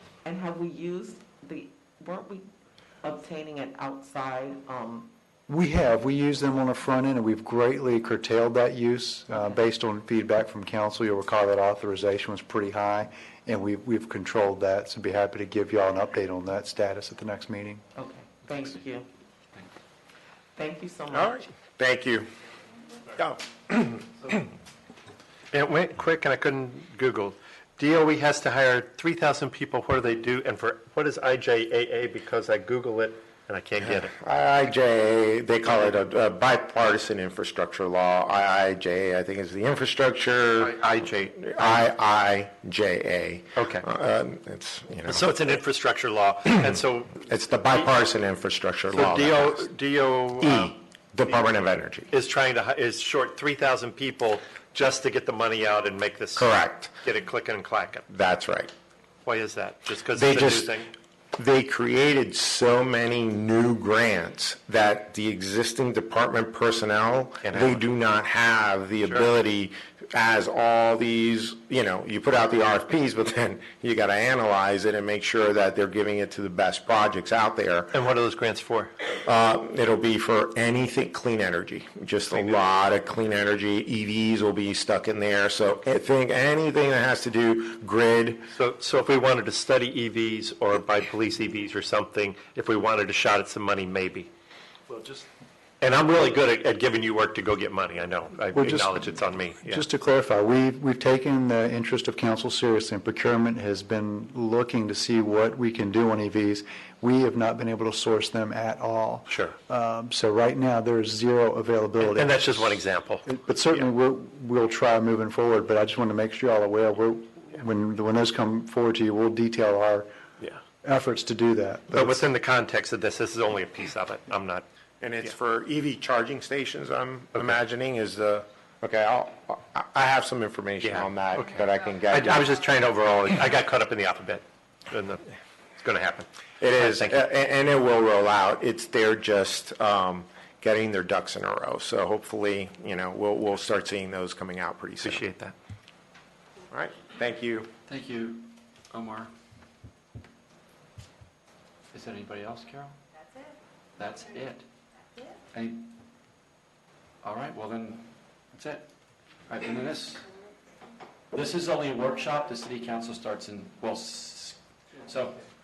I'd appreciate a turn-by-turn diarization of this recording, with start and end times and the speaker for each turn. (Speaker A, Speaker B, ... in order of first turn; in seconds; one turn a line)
Speaker A: 0.2-2.5
Speaker A: 3.0-5.1
Speaker B: 5.5-17.8
Speaker A: 17.9-19.1
Speaker A: 20.5-21.4
Speaker C: 21.1-22.3
Speaker C: 23.2-24.3
Speaker D: 25.5-34.1
Speaker C: 33.8-40.7
Speaker D: 40.6-41.9
Speaker C: 41.3-45.3
Speaker D: 43.5-43.9
Speaker D: 45.1-47.8
Speaker C: 47.2-49.6
Speaker D: 48.9-50.7
Speaker C: 50.4-52.1
Speaker D: 52.1-58.0
Speaker C: 56.4-56.9
Speaker C: 58.1-58.7
Speaker D: 59.2-60.9
Speaker C: 60.1-60.8
Speaker C: 61.4-77.9
Speaker D: 67.4-67.8
Speaker D: 69.0-69.3
Speaker D: 77.9-78.9
Speaker C: 79.2-88.5
Speaker D: 82.3-82.6
Speaker D: 88.5-94.3
Speaker B: 94.9-95.2
Speaker D: 95.8-99.8
Speaker B: 98.5-112.5
Speaker D: 109.3-109.5
Speaker D: 112.0-113.8
Speaker B: 113.2-120.1
Speaker B: 120.8-122.3
Speaker D: 121.9-124.6
Speaker C: 125.0-132.5
Speaker D: 130.8-131.6
Speaker D: 132.1-137.1
Speaker C: 136.6-145.2
Speaker D: 145.0-145.5
Speaker C: 146.7-147.7
Speaker E: 147.9-149.3
Speaker E: 151.9-152.9
Speaker E: 153.9-154.7
Speaker E: 155.5-156.0
Speaker E: 157.2-158.9
Speaker E: 159.5-160.2
Speaker E: 161.3-165.4